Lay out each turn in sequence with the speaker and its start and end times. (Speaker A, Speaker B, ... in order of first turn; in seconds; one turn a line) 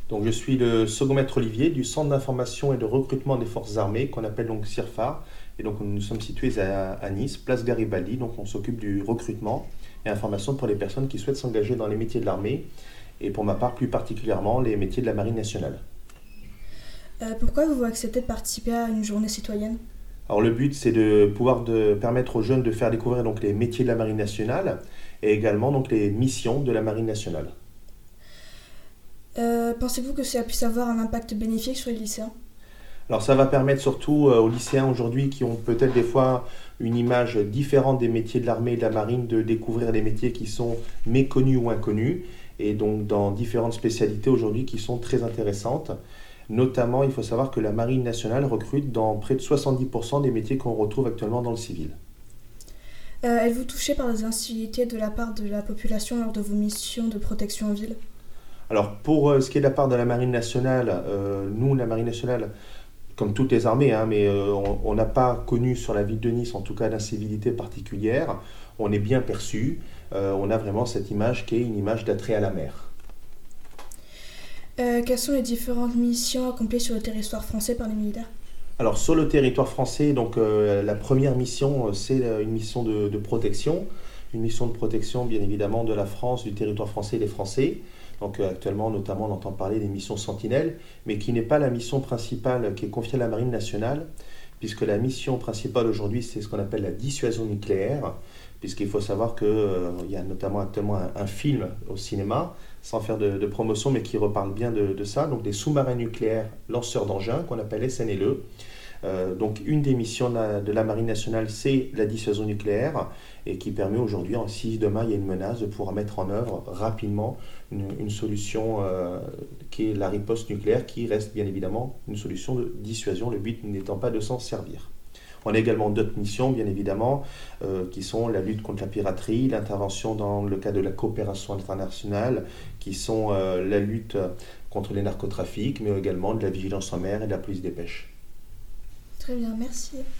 Speaker A: 0.1-12.7
Speaker A: 13.2-15.8
Speaker B: 17.2-19.8
Speaker A: 20.3-27.5
Speaker B: 29.4-32.3
Speaker A: 33.1-45.9
Speaker A: 46.5-52.0
Speaker B: 53.2-58.0
Speaker A: 58.7-62.5
Speaker A: 63.2-72.9
Speaker B: 74.8-78.3
Speaker A: 78.8-94.1
Speaker A: 94.6-108.4
Speaker A: 109.0-124.9
Speaker A: 125.4-138.1
Speaker B: 139.2-140.1